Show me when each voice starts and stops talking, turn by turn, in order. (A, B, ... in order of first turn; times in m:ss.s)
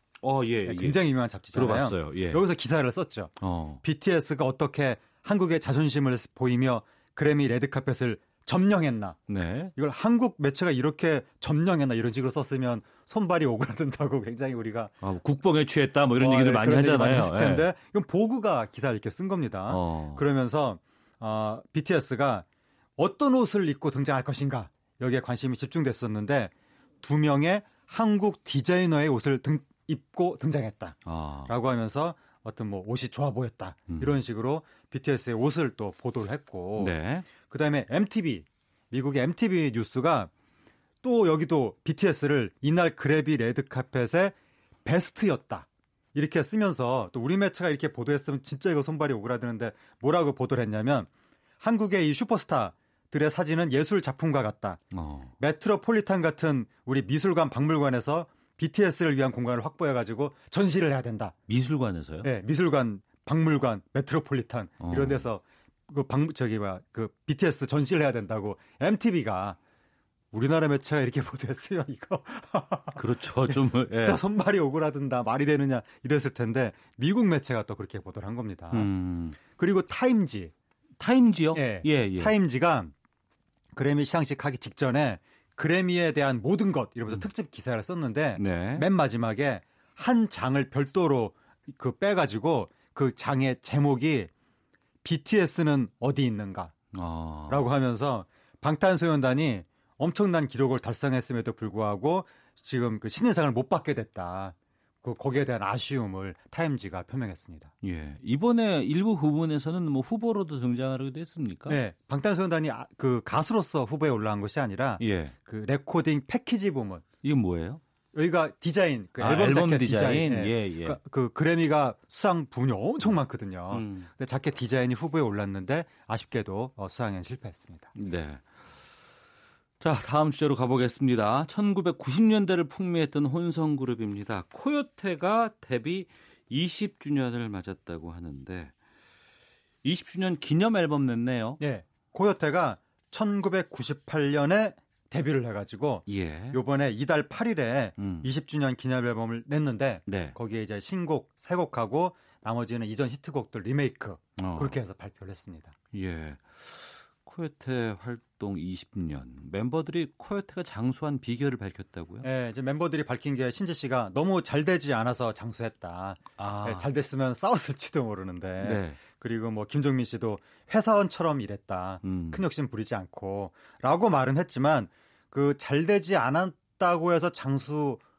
0:00.2-0:02.4 A
0:00.6-0:14.9 B
0:03.4-0:03.8 A
0:09.3-0:09.7 A
0:15.0-0:17.7 A
0:16.2-0:22.4 B
0:19.7-0:20.2 A
0:23.0-0:40.3 B
0:31.0-0:31.5 A
0:33.9-0:34.2 A
0:36.8-0:37.3 A
0:41.0-0:51.1 B
0:51.6-0:54.9 B
0:54.9-0:55.3 A
0:55.4-1:01.4 B
1:01.5-1:02.3 A
1:02.2-1:09.6 B
1:04.8-1:05.3 A
1:10.3-1:20.5 B
1:12.9-1:14.2 A
1:18.7-1:19.4 A
1:21.0-1:22.3 A
1:21.5-1:22.9 B
1:23.7-1:34.3 B
1:28.4-1:28.9 A
1:35.0-1:36.7 B
1:36.9-1:37.7 A
1:37.5-1:47.7 B
1:47.8-1:51.8 A
1:51.7-1:57.0 B
1:55.0-1:55.3 A
1:57.2-1:57.8 A
1:58.1-2:07.9 B
1:59.2-2:01.0 A
2:03.7-2:04.1 A
2:07.9-2:08.4 A
2:09.8-2:18.7 A
2:19.8-2:21.6 A
2:21.6-2:35.8 B
2:26.1-2:26.6 A
2:28.0-2:28.3 A
2:30.0-2:30.4 A
2:34.4-2:34.8 A
2:35.9-2:42.3 A
2:42.2-2:58.0 B
2:46.4-2:46.9 A
2:48.6-2:49.0 A
2:52.0-2:52.4 A